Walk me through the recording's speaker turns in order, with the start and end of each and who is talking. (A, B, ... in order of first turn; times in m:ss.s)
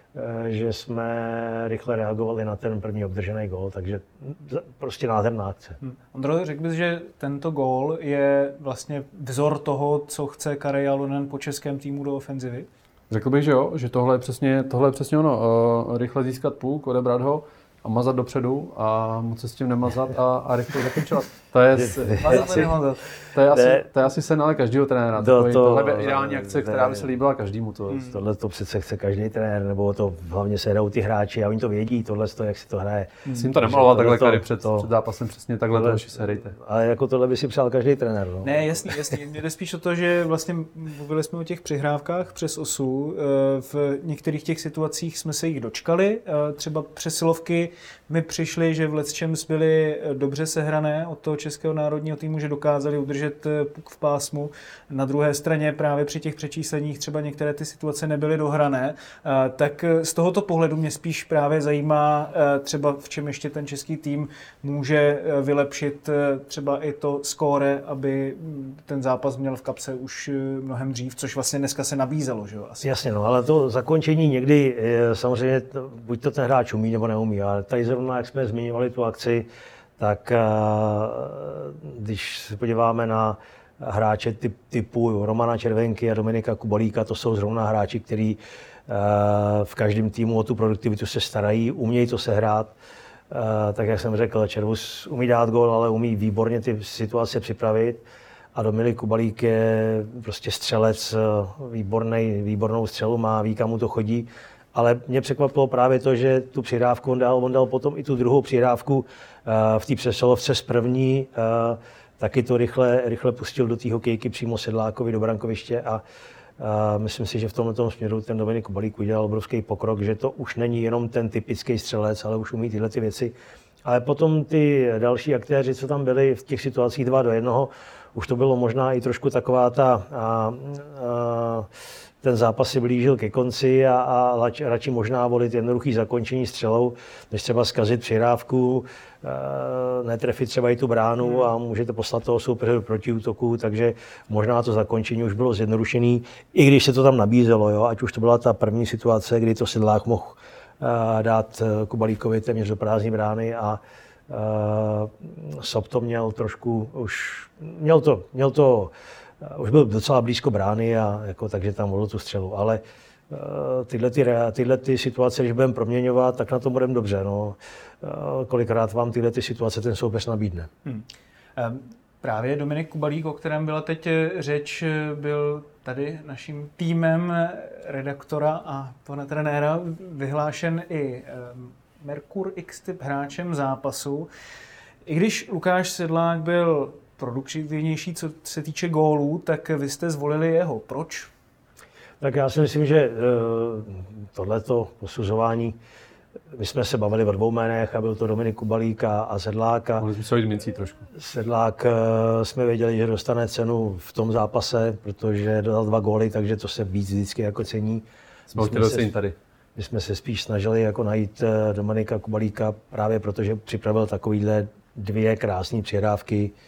0:00.1-0:05.8 A
0:05.8-0:12.7 B
0:13.1-0:22.7 C
0:21.8-0:22.7 A
0:22.1-0:23.0 B
0:23.3-0:28.0 C
0:23.5-0:23.8 A
0:25.2-0:27.1 A
0:27.9-0:28.2 B
0:28.0-0:34.9 A
0:33.3-0:33.5 B
0:33.4-0:36.5 C
0:35.7-0:39.0 A
0:38.4-1:12.9 B
1:12.8-1:19.5 A
1:20.0-1:32.8 A
1:33.3-1:38.0 A
1:38.6-1:56.0 A
1:56.6-2:11.7 A
2:12.2-2:50.7 A
2:51.6-3:04.3 B
3:05.1-3:11.3 B
3:12.2-3:15.8 A
3:16.5-3:20.1 A
3:20.0-3:21.0 C
3:21.1-3:29.1 A
3:28.5-3:29.4 C
3:29.8-3:36.6 A